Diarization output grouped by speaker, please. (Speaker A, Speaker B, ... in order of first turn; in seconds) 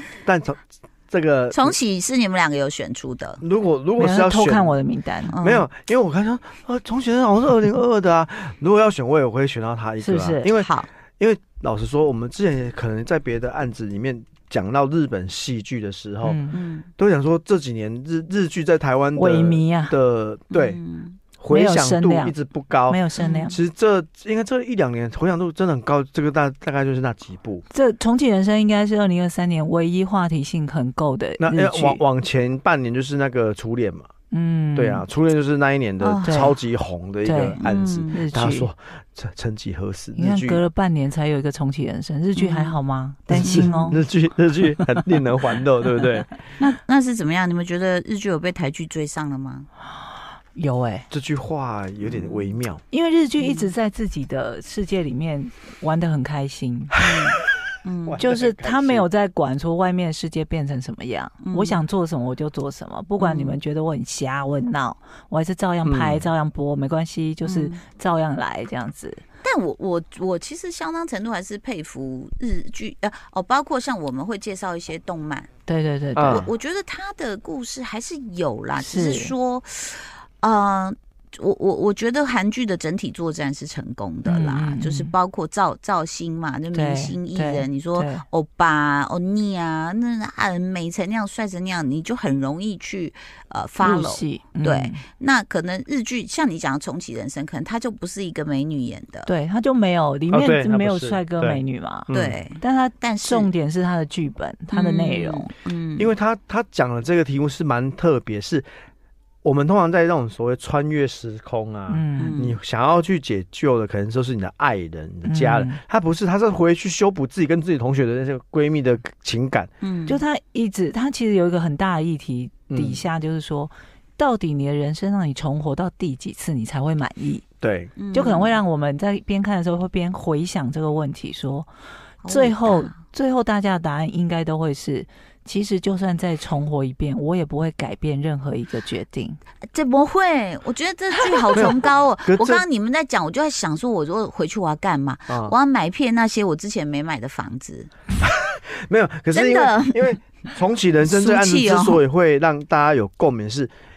Speaker A: 0.1-1.7, 3.4-4.7, 5.4-16.4, 17.0-20.8, 21.4-27.6, 31.4-34.1, 34.7-40.6, 43.3-46.3, 51.1-52.8, 58.0-59.1, 65.8-66.2, 76.2-76.5, 100.3-102.4, 106.0-108.7, 109.4-119.7, 122.7-123.0, 127.6-127.9, 141.5-142.6, 145.3-145.5, 148.2-153.7
Speaker B: 1.5-3.4, 5.3-5.7, 10.5-10.9, 16.5-16.9, 20.5-21.2, 23.2-23.5, 36.0-36.5, 37.6-38.2, 42.4-42.8, 43.4-43.9, 46.6-49.7, 52.0-52.4, 53.4-53.7, 57.0-58.2, 61.4-61.8, 63.2-63.6, 67.4-67.8, 69.4-75.5, 76.2-99.3, 102.1-103.5, 104.7-106.1, 112.2-112.5, 119.8-120.2, 128.0-128.6, 132.2-133.0, 139.7-147.9, 149.3-150.2, 151.1-152.0
Speaker C: 4.0-5.3, 10.0-10.5, 16.2-16.6, 19.1-19.9, 21.5-22.3, 22.9-23.6, 27.7-32.0, 34.3-35.0, 36.2-36.5, 37.2-37.6, 38.1-38.7, 40.1-44.0, 49.9-51.1, 52.9-57.0, 58.2-69.2, 75.7-76.5, 78.8-79.3, 84.2-85.1, 86.7-88.2, 93.8-95.0, 99.2-105.5, 111.9-112.4, 115.2-115.8, 120.1-127.4, 128.1-131.7, 132.3-139.4